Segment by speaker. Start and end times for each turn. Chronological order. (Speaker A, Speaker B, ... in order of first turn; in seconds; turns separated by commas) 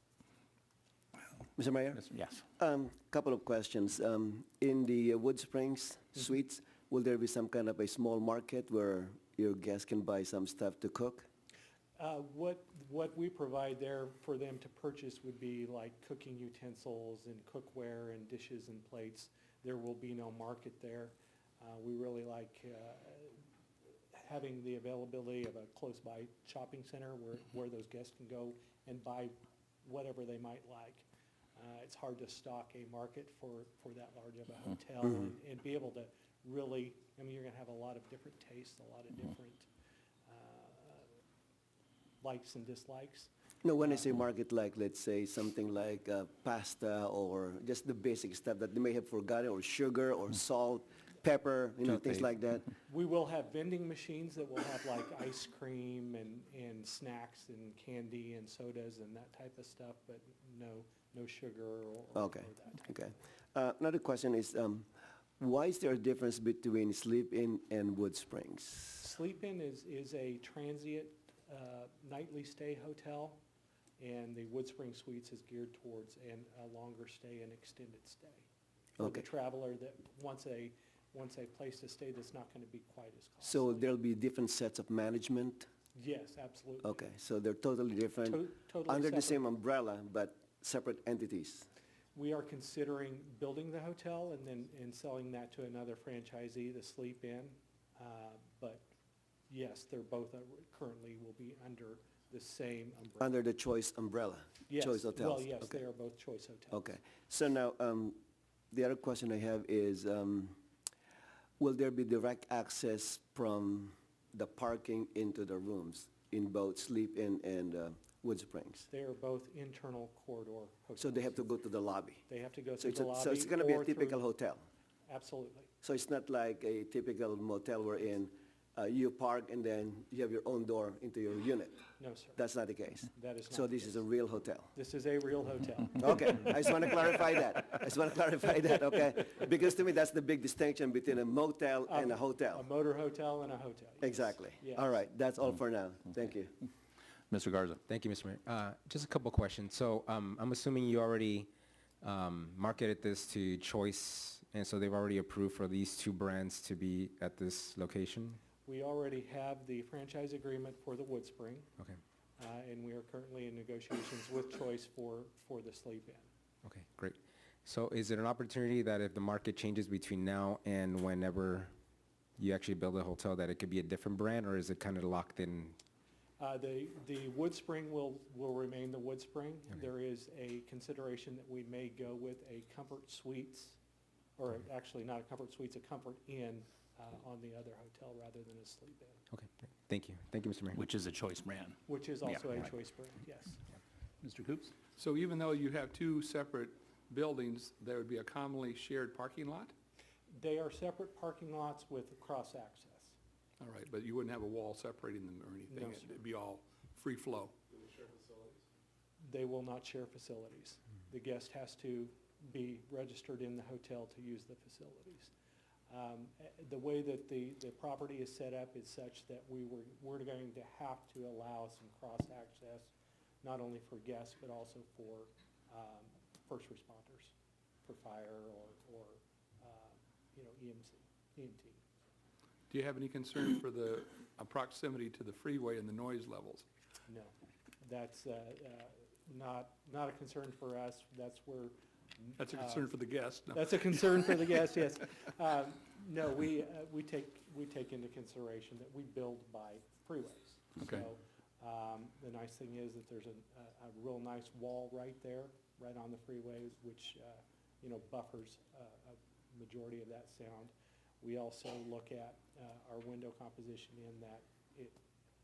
Speaker A: 1.6-2.0, Speaker B: 2.0-2.4, Speaker A: 2.6-11.3, Speaker C: 11.9-23.4, Speaker C: 24.1-39.7, Speaker C: 40.3-41.1, Speaker C: 42.2-43.3, Speaker A: 43.6-52.7, Speaker D: 51.8-52.2, Speaker C: 52.9-63.2, Speaker A: 62.1-64.9, Speaker A: 65.4-69.0, Speaker C: 69.0-73.4, Speaker C: 74.0-78.5, Speaker C: 79.0-83.9, Speaker A: 83.4-85.7, Speaker C: 85.9-87.0, Speaker A: 86.8-91.7, Speaker C: 88.2-89.4, Speaker C: 92.1-98.9, Speaker C: 99.5-103.4, Speaker A: 103.2-105.8, Speaker C: 104.7-106.9, Speaker A: 106.7-108.2, Speaker A: 108.7-110.6, Speaker A: 111.6-118.9, Speaker C: 118.9-121.4, Speaker A: 121.0-122.2, Speaker C: 122.3-124.3, Speaker A: 122.8-124.6, Speaker C: 125.0-125.7, Speaker A: 125.8-131.8, Speaker C: 132.0-132.4, Speaker A: 132.4-134.7, Speaker C: 133.1-134.0, Speaker C: 134.7-136.6, Speaker A: 136.0-142.6, Speaker C: 141.9-144.9, Speaker A: 144.0-146.5, Speaker B: 147.3-147.8, Speaker D: 147.9-151.5, Speaker D: 152.0-158.4, Speaker C: 158.6-161.7, Speaker C: 162.4-166.3, Speaker D: 166.6-171.7, Speaker D: 172.4-175.8, Speaker C: 176.4-183.8, Speaker C: 184.4-189.2, Speaker D: 189.3-190.8, Speaker B: 190.7-192.7, Speaker C: 191.9-193.6, Speaker B: 194.2-194.7, Speaker E: 195.0-199.7, Speaker C: 200.3-203.2, Speaker E: 203.6-208.6, Speaker C: 205.7-206.1, Speaker C: 209.2-215.3, Speaker C: 215.9-227.3, Speaker C: 227.8-231.8, Speaker E: 232.7-236.7, Speaker C: 237.1-242.9, Speaker E: 242.4-244.2, Speaker C: 243.5-265.0